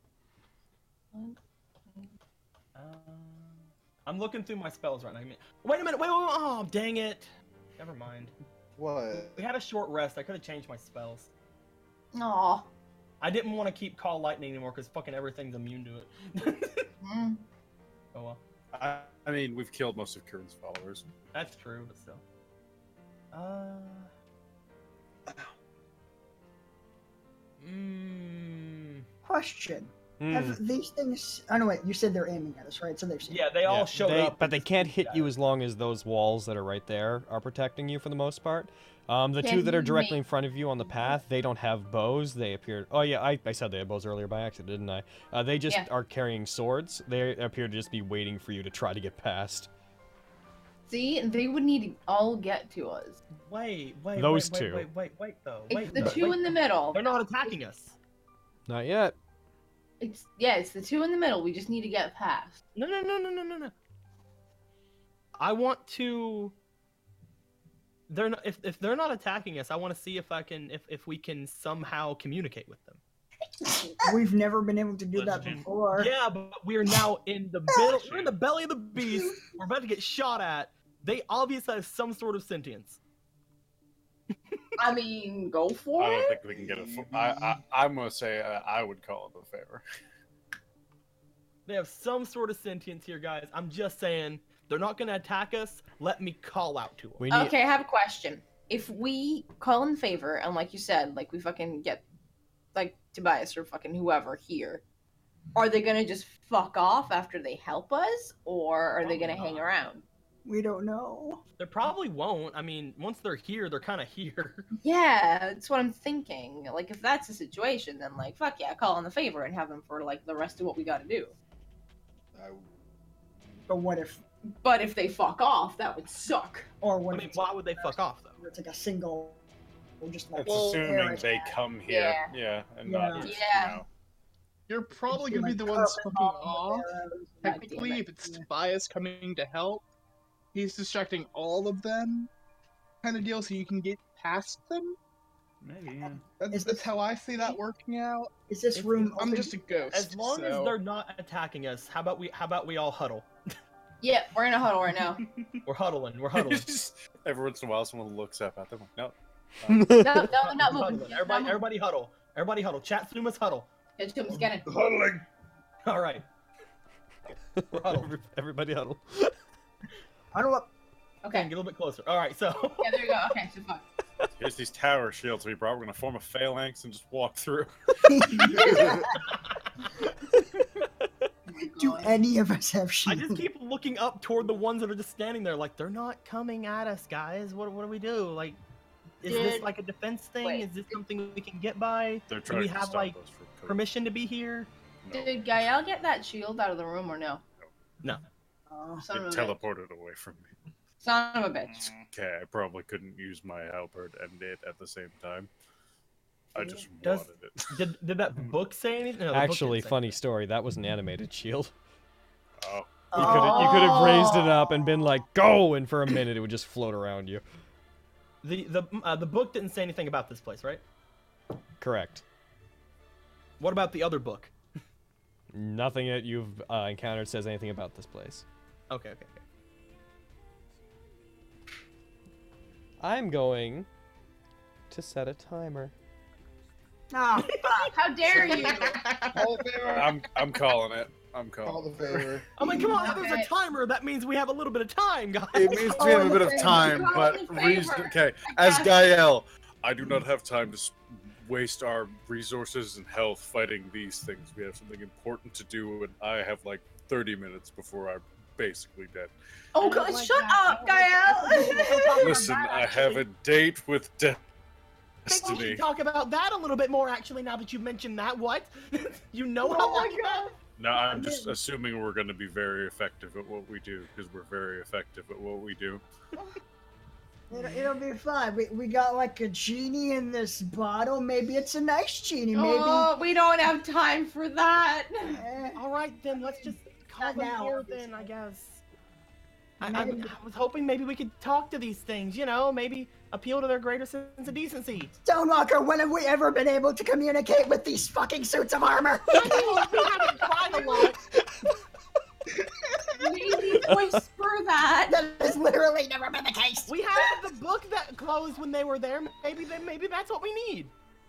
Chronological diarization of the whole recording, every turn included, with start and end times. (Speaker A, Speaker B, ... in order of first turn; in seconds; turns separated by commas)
Speaker A: 2.8-8.3, Speaker B: 8.8-9.4, Speaker A: 9.1-11.3, Speaker C: 12.1-12.7, Speaker A: 13.2-16.9, Speaker C: 17.0-17.4, Speaker A: 18.1-18.4, Speaker D: 18.7-21.1, Speaker A: 21.3-22.2, Speaker A: 23.3-24.1, Speaker A: 27.6-29.1, Speaker E: 29.2-33.5, Speaker F: 30.2-30.6, Speaker A: 33.3-35.3, Speaker F: 33.7-49.7, Speaker C: 39.4-40.2, Speaker C: 50.9-53.2, Speaker A: 53.4-58.0, Speaker F: 54.2-54.9, Speaker C: 55.7-57.5, Speaker F: 58.7-59.1, Speaker C: 60.0-62.6, Speaker A: 62.8-63.7, Speaker A: 65.4-66.5, Speaker A: 68.1-73.0, Speaker E: 74.0-76.1, Speaker G: 75.1-75.7, Speaker A: 75.9-83.0, Speaker G: 77.9-78.4, Speaker C: 84.8-86.4, Speaker D: 86.0-89.8, Speaker B: 86.5-87.6, Speaker A: 91.7-97.2, Speaker F: 97.2-97.5, Speaker C: 97.3-102.0, Speaker C: 102.8-104.8, Speaker C: 105.5-110.0, Speaker A: 109.0-109.7, Speaker E: 110.5-111.4, Speaker A: 111.6-114.7, Speaker C: 114.8-121.3, Speaker B: 122.3-122.7, Speaker E: 123.7-124.2, Speaker C: 124.6-126.7, Speaker E: 126.8-129.4, Speaker A: 127.1-128.4, Speaker E: 130.0-131.3, Speaker D: 130.4-133.9, Speaker C: 131.2-132.3, Speaker E: 132.9-133.3, Speaker C: 133.2-133.8, Speaker H: 134.7-136.9, Speaker E: 135.1-138.4, Speaker H: 137.4-139.9, Speaker C: 137.4-138.1, Speaker H: 140.5-142.3, Speaker H: 143.0-145.0, Speaker G: 145.6-146.3, Speaker H: 146.4-148.3, Speaker E: 146.5-146.9, Speaker E: 148.5-149.6, Speaker A: 148.8-149.3, Speaker H: 149.2-150.8, Speaker A: 149.9-153.3, Speaker C: 154.0-155.2, Speaker A: 155.7-156.7, Speaker D: 156.3-160.1, Speaker F: 159.7-160.3, Speaker C: 160.0-161.6, Speaker A: 160.3-163.7, Speaker C: 164.0-164.7, Speaker B: 164.3-165.2, Speaker A: 165.9-166.3, Speaker F: 167.6-169.3, Speaker A: 167.7-168.1, Speaker E: 170.3-170.7, Speaker C: 171.2-171.5, Speaker A: 171.3-173.2, Speaker C: 172.8-173.8, Speaker D: 174.4-178.1, Speaker E: 178.1-179.1, Speaker C: 178.4-179.0, Speaker B: 178.5-179.0, Speaker C: 181.5-182.2, Speaker E: 181.8-183.4, Speaker A: 183.1-188.6, Speaker A: 189.2-194.7, Speaker C: 189.2-189.7, Speaker C: 190.4-190.7, Speaker D: 192.3-193.8, Speaker D: 195.0-195.5, Speaker C: 195.1-197.4, Speaker E: 198.7-199.1, Speaker C: 199.0-199.6, Speaker D: 199.1-200.5, Speaker C: 201.0-201.9, Speaker G: 201.7-202.1, Speaker D: 202.1-205.5, Speaker D: 206.5-207.8, Speaker A: 207.0-210.2, Speaker F: 209.3-211.7, Speaker D: 212.6-213.1, Speaker E: 213.1-214.4, Speaker F: 213.1-217.4, Speaker C: 213.2-214.5, Speaker A: 218.4-220.8, Speaker F: 221.8-222.2, Speaker A: 223.6-224.5, Speaker F: 225.5-228.4, Speaker A: 228.9-229.4, Speaker F: 233.0-233.9, Speaker F: 234.9-235.9, Speaker E: 237.1-237.9, Speaker A: 237.5-239.5, Speaker C: 237.9-239.0, Speaker B: 239.3-240.1, Speaker D: 239.9-242.4, Speaker B: 241.7-242.5, Speaker A: 242.6-246.3, Speaker C: 242.9-243.5, Speaker D: 245.5-259.3, Speaker E: 245.8-247.1, Speaker C: 245.9-249.2, Speaker C: 259.8-262.4, Speaker A: 259.8-263.2, Speaker E: 261.4-262.2, Speaker D: 262.2-264.4, Speaker D: 265.3-265.9, Speaker A: 265.3-270.5, Speaker E: 269.6-271.6, Speaker C: 269.8-270.5, Speaker D: 270.8-276.0, Speaker E: 277.5-283.1, Speaker C: 282.5-285.4, Speaker E: 285.2-285.8, Speaker A: 285.8-288.8, Speaker E: 286.3-288.3, Speaker A: 289.8-295.1, Speaker E: 289.8-290.3, Speaker E: 295.2-300.5, Speaker A: 299.3-301.2, Speaker C: 303.2-305.2, Speaker E: 305.1-307.0, Speaker A: 306.9-310.9